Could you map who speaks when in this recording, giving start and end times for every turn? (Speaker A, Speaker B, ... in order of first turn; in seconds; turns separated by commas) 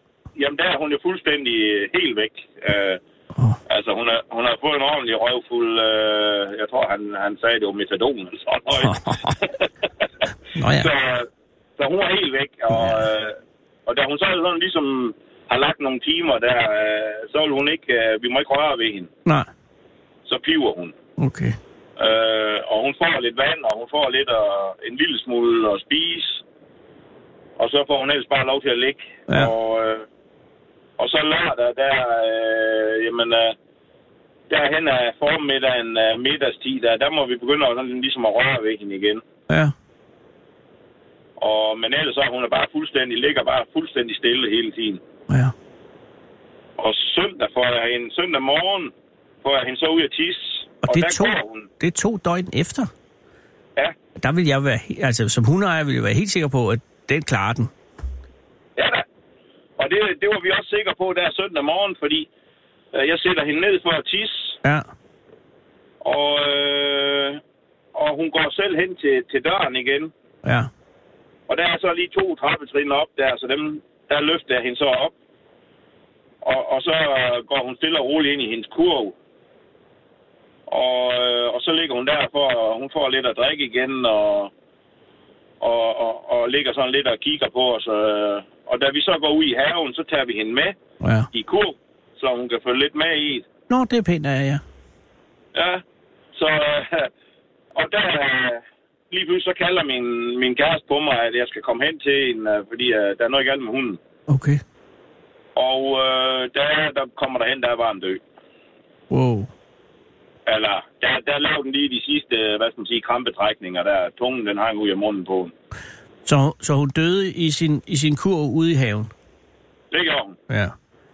Speaker A: 0.4-3.0, Speaker A: 3.7-9.0, Speaker B: 8.8-9.4, Speaker B: 10.6-10.9, Speaker A: 10.7-19.1, Speaker A: 20.3-20.9, Speaker B: 21.2-21.6, Speaker A: 22.0-26.4, Speaker A: 27.6-30.1, Speaker A: 31.0-33.6, Speaker A: 34.5-39.2, Speaker A: 41.4-45.0, Speaker A: 46.8-48.9, Speaker A: 49.4-51.7, Speaker B: 50.9-52.9, Speaker B: 54.2-57.7, Speaker A: 58.8-59.0, Speaker A: 59.8-62.3, Speaker A: 62.9-64.6, Speaker A: 66.0-67.4, Speaker A: 68.0-70.1, Speaker B: 70.4-70.7, Speaker A: 71.5-75.1, Speaker A: 76.4-79.2, Speaker A: 80.7-84.5, Speaker A: 85.6-90.8, Speaker B: 91.0-91.3, Speaker A: 91.3-93.5, Speaker B: 93.7-94.6, Speaker A: 95.5-95.8, Speaker A: 96.4-97.1, Speaker A: 97.8-104.0, Speaker B: 104.3-104.6, Speaker A: 105.6-108.2, Speaker B: 109.1-109.5, Speaker A: 110.5-115.5, Speaker B: 116.3-119.1, Speaker A: 119.9-120.4